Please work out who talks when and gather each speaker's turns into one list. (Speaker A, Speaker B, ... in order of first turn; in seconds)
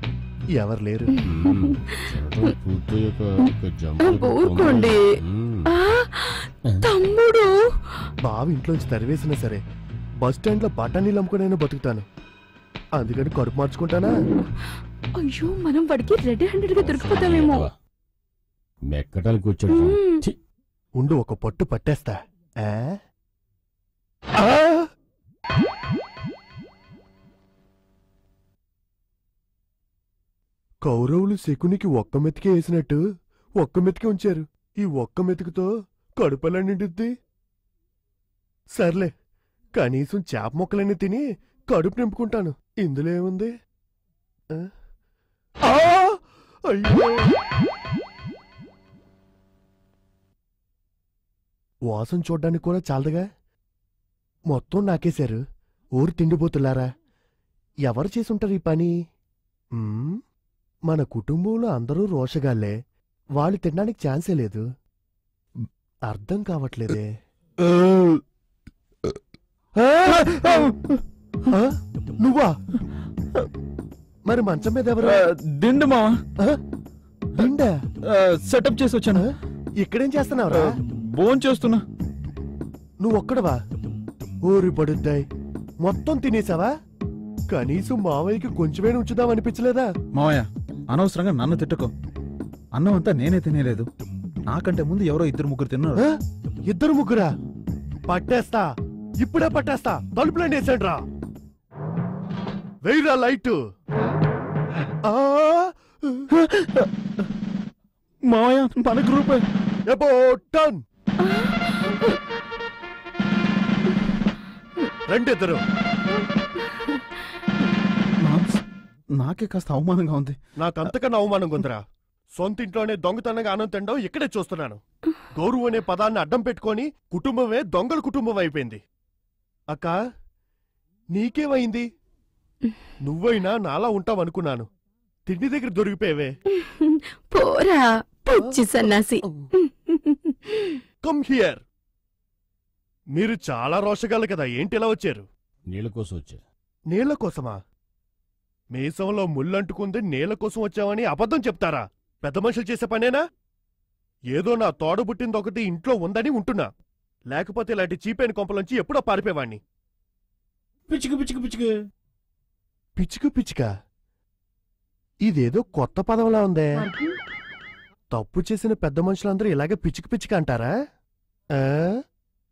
Speaker A: 0.5-1.1, 8.2-9.6, 10.2-12.0, 13.0-14.1, 21.0-22.9, 24.4-24.9, 30.8-33.0, 33.6-37.1, 38.7-39.1, 39.8-43.5, 45.6-47.3, 51.9-53.2, 54.5-55.4, 55.9-56.9, 57.9-58.9, 59.8-60.2, 60.9-62.7, 63.4-64.6, 66.0-67.1, 69.8-70.3, 71.5-72.5, 74.3-75.2, 77.4-77.7, 79.1-80.6, 83.0-83.6, 84.4-85.2, 85.8-86.7, 87.5-89.9, 96.0-97.3, 98.1-98.7, 99.2-101.0, 102.8-103.6, 105.0-106.3, 109.9-110.8, 115.1-115.6, 120.6-121.8, 122.3-124.8, 125.3-128.8, 129.7-129.9, 131.1-131.8, 133.0-134.7, 135.2-136.3, 141.0-141.6, 143.1-145.2, 146.9-147.6, 148.7-153.2, 154.3-156.7, 157.3-159.6, 163.0-163.7, 165.2-166.7, 168.1-170.7, 171.6-171.9
Speaker B: 1.1-2.5, 4.0-5.1, 5.7-8.1, 15.2-17.7, 19.7-20.2, 111.2-112.1, 136.5-140.8, 166.8-167.1
Speaker C: 1.2-5.7, 16.8-17.7, 18.9-20.3, 145.7-146.4, 160.9-161.7
Speaker D: 67.6-68.2, 70.1-71.0, 75.0-76.2, 78.0-79.2, 80.5-81.8, 90.1-91.9, 92.8-93.9, 94.5-96.0, 106.3-106.9, 108.3-109.4, 118.2-118.6, 119.2-120.9